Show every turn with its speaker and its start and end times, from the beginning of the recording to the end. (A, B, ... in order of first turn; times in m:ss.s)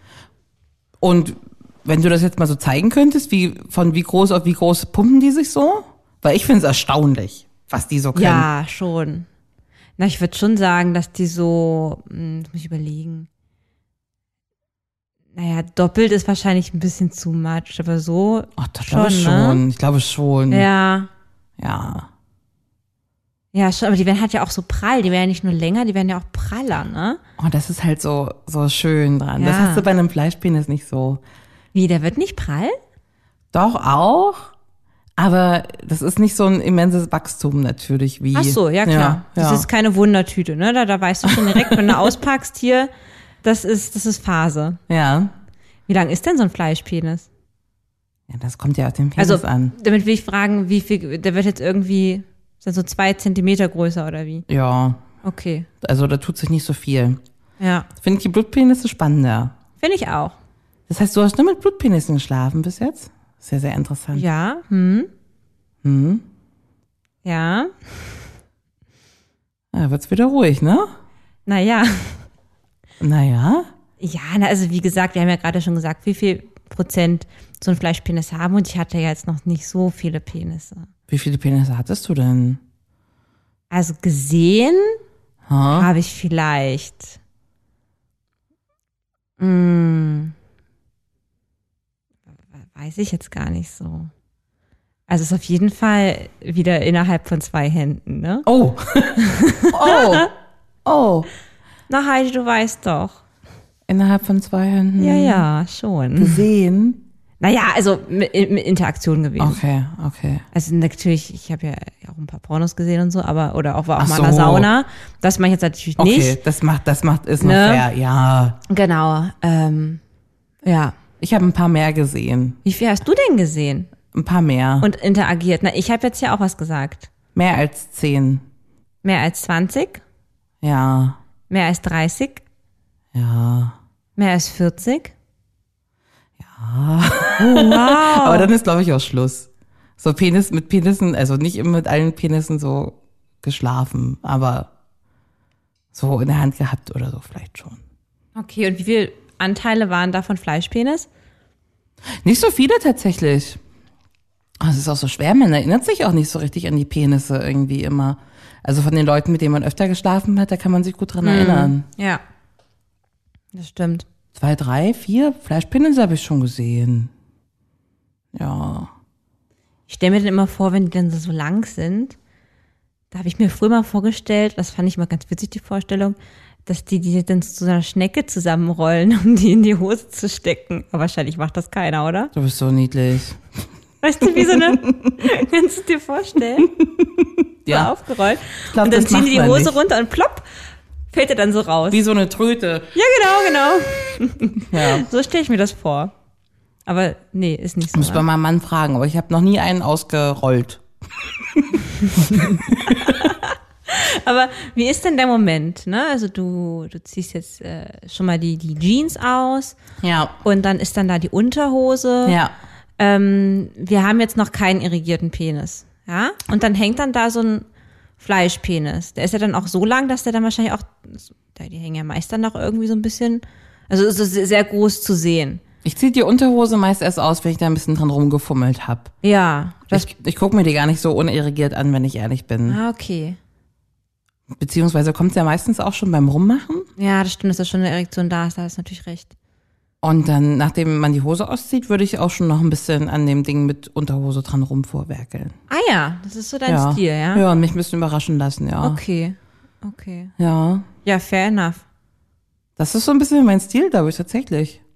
0:01.0-0:08.5 A
0:08.1-0:09.3 B
0:10.0-0:13.3 B
0:15.3-0:19.6 B
0:18.6-0:20.7 A
0:20.5-0:21.1 B
0:21.6-0:22.1 A
0:23.5-0:27.2 B
0:27.4-0:31.2 A
0:29.4-0:29.9 B
0:31.7-0:32.8 B
0:33.5-0:34.5 A
0:35.2-0:39.7 A
0:38.3-0:42.9 B
0:41.3-0:42.1 A
0:43.4-0:44.8 B
0:44.9-0:45.3 A
0:45.9-0:47.3 B
0:48.3-0:49.8 A
0:49.2-0:54.5 B
0:54.5-0:55.0 A
0:55.2-0:55.7 B
0:55.8-0:57.2 A
0:57.6-0:57.9 B
0:58.0-0:59.6 A
0:59.8-1:00.4 B
1:00.9-1:04.2 A
1:04.1-1:05.1 B
1:05.8-1:06.2 A
1:07.2-1:08.2 B
1:09.7-1:10.9 A
1:11.5-1:12.2 B
1:13.0-1:13.7 A
1:14.0-1:20.9 B
1:21.1-1:22.6 A
1:23.7-1:25.0 B
1:25.5-1:25.9 A
1:25.7-1:27.2 B
1:29.4-1:30.3 B
1:32.6-1:34.1 B
1:35.1-1:38.5 B
1:38.5-1:40.3 A
1:39.2-1:40.3 B
1:40.8-1:41.3 A
1:41.9-1:43.2 B
1:43.9-1:45.4 A
1:45.0-1:46.4 B
1:46.2-1:47.0 A
1:47.4-1:49.6 B
1:49.4-1:50.4 A
1:50.5-1:56.4 B
1:54.0-1:54.7 A
1:56.0-1:58.6 A
1:57.4-1:57.8 B
1:58.7-2:00.0 B
2:00.6-2:00.9 B
2:01.2-2:02.6 A
2:02.6-2:03.9 B
2:04.1-2:04.9 A
2:04.8-2:07.1 B
2:07.4-2:08.4 A
2:09.0-2:10.0 B
2:10.6-2:11.2 A
2:11.5-2:12.4 B
2:13.1-2:13.8 A
2:14.2-2:15.1 B
2:16.4-2:24.7 A
2:17.4-2:18.5 B
2:25.9-2:27.8 A
2:28.4-2:31.1 B
2:32.2-2:33.6 A
2:34.6-2:41.8 A
2:41.2-2:42.2 B
2:43.5-2:44.1 B
2:44.4-2:47.1 A
2:48.3-2:48.9 A
2:49.9-2:52.2 B
2:53.1-3:02.3 B
3:02.3-3:03.4 A
3:04.0-3:06.7 B
3:04.3-3:05.1 A
3:06.7-3:07.9 A
3:07.7-3:10.5 B
3:08.7-3:09.8 A
3:11.1-3:12.0 B
3:11.9-3:12.9 A
3:12.9-3:16.1 B
3:14.7-3:15.1 A
3:16.9-3:18.2 B
3:17.9-3:23.3 A
3:22.4-3:29.8 B
3:30.0-3:30.4 A
3:30.4-3:32.4 B
3:32.2-3:32.5 A
3:33.0-3:37.6 B
3:38.2-3:45.6 B
3:45.8-3:49.1 A
3:49.2-3:50.1 B
3:49.9-3:52.8 A
3:52.7-3:53.4 B
3:54.5-3:56.9 A
3:57.0-3:59.3 B
4:00.0-4:05.6 A
4:05.7-4:07.4 B
4:06.7-4:09.0 A
4:08.8-4:10.3 B
4:10.4-4:10.9 A
4:11.0-4:11.8 B
4:12.8-4:14.8 A